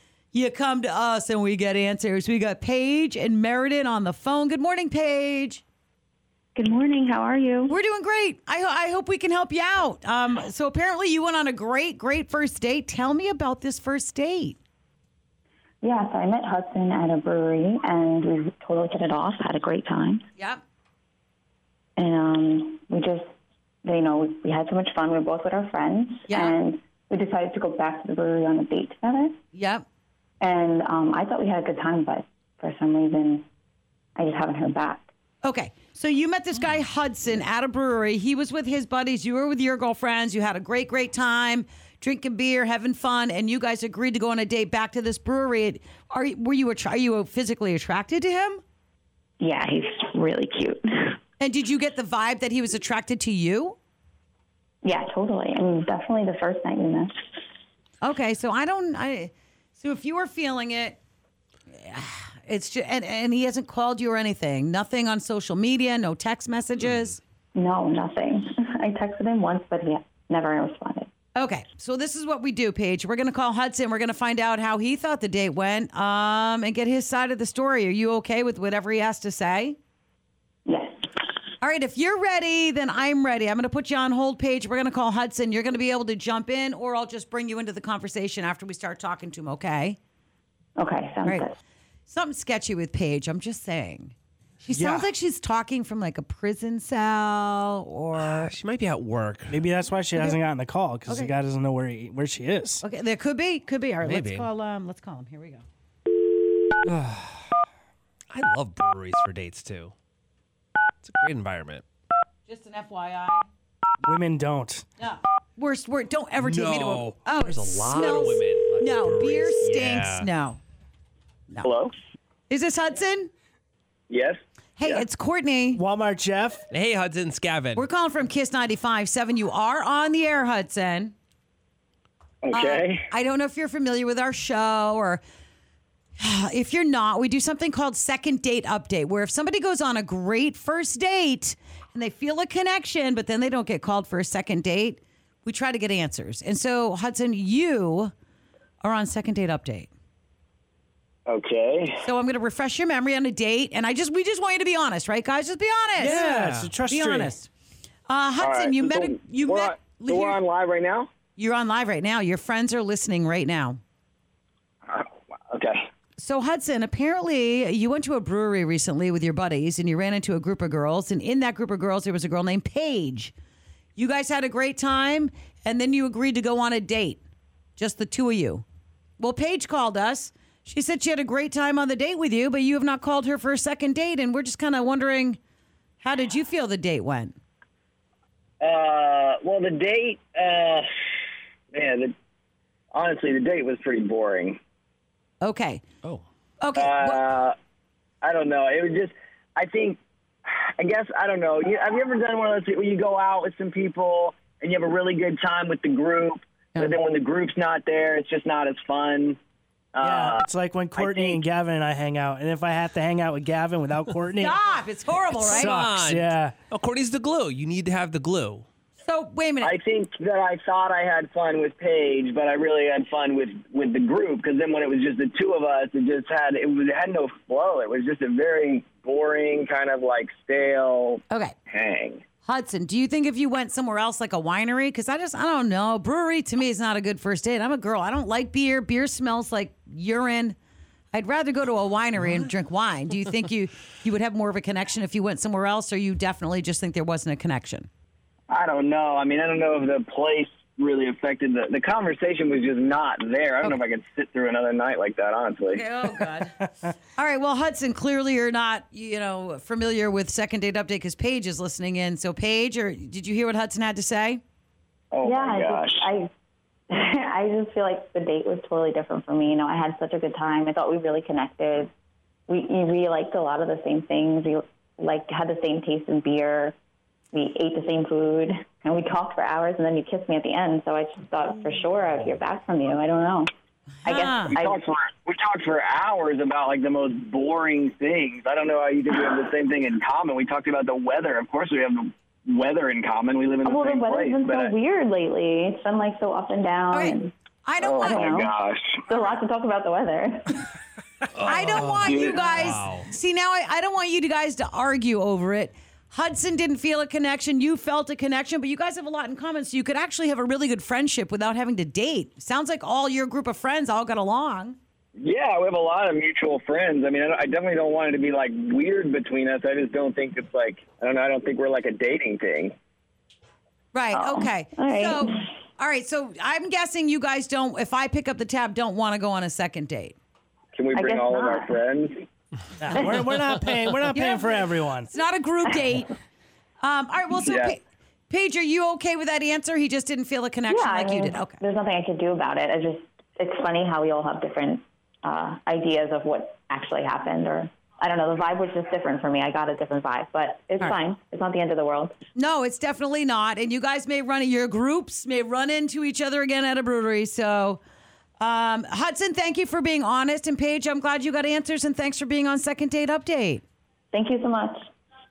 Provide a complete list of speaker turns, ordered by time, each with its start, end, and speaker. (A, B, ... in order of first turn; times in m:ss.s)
0:00.3-0:05.6 A
0:06.6-0:07.7 B
0:07.7-0:14.6 A
0:15.8-0:20.2 B
0:22.0-0:23.2 B
0:23.8-0:29.4 B
0:26.3-0:26.6 A
0:29.5-0:29.8 A
0:30.4-0:33.4 B
0:34.2-0:35.1 B
0:35.4-0:48.6 A
0:49.4-0:51.2 B
0:51.4-0:53.8 A
0:54.8-0:57.1 B
0:58.0-1:01.0 A
1:01.7-1:07.2 A
1:07.6-1:11.1 B
1:11.4-1:19.8 A
1:20.7-1:20.9 B
1:21.6-1:30.0 A
1:30.8-1:31.6 B
1:32.1-1:38.5 A
1:34.7-1:35.1 C
1:38.2-1:39.6 D
1:39.5-1:42.8 C
1:40.1-1:40.4 A
1:42.8-1:45.6 A
1:44.0-1:44.5 D
1:46.8-1:47.4 D
1:48.3-1:49.9 D
1:51.0-1:51.8 D
1:52.5-1:53.5 A
1:54.0-1:54.9 C
1:55.0-2:00.6 A
1:56.4-2:00.3 D
2:01.6-2:01.9 E
2:02.5-2:03.3 A
2:04.1-2:05.0 E
2:04.8-2:05.8 A
2:05.7-2:06.6 C
2:06.7-2:07.9 D
2:07.8-2:11.1 A
2:12.4-2:13.0 E
2:12.5-2:15.2 A
2:16.2-2:28.1 A
2:28.8-2:29.9 A
2:31.3-2:32.0 E
2:32.0-2:36.2 A
2:36.0-2:37.3 C
2:36.2-2:36.7 D
2:36.9-2:37.5 A
2:38.1-2:40.4 A
2:38.4-2:41.1 E
2:41.4-2:43.8 A
2:44.9-2:45.8 E
2:46.2-2:53.3 A
2:54.0-2:57.2 A
2:57.8-2:58.6 A
2:59.2-3:05.4 A
3:06.0-3:07.4 A
3:08.6-3:10.8 E
3:11.7-3:12.1 E
3:12.9-3:14.6 E
3:15.4-3:15.8 A
3:16.6-3:17.3 A
3:16.8-3:17.6 E
3:18.2-3:29.4 E
3:30.0-3:30.4 E
3:30.0-3:34.6 C
3:31.0-3:31.4 E
3:34.4-3:35.9 A
3:35.3-3:38.7 D
3:35.4-3:36.6 C
3:39.0-3:39.7 A
3:39.6-3:52.2 E
3:52.4-4:00.6 A
4:01.1-4:07.9 A
4:08.5-4:15.9 E
4:15.7-4:24.4 A
4:25.1-4:26.0 E
4:25.2-4:26.3 B
4:26.9-4:31.9 B
4:32.5-4:36.7 B
4:37.3-4:43.5 B
4:44.0-4:44.6 A
4:44.0-4:44.8 B
4:44.5-4:54.8 E
4:53.6-4:57.3 B
4:56.9-4:58.3 A
4:57.8-4:59.0 E
4:58.0-4:58.5 B
4:59.1-4:59.4 A
4:59.1-5:00.7 B
5:01.4-5:03.1 D
5:01.4-5:14.8 A
5:02.0-5:02.5 E
5:02.2-5:02.6 B
5:15.2-5:22.7 E
5:23.9-5:30.2 A
5:24.1-5:25.4 B
5:30.7-5:32.2 E
5:30.9-5:31.8 B
5:32.8-5:35.1 C
5:34.1-5:36.1 A
5:36.8-5:41.6 A
5:37.4-5:37.8 E
5:40.7-5:52.1 B
5:52.4-5:57.8 A
5:58.4-6:03.6 A
6:04.1-6:04.9 B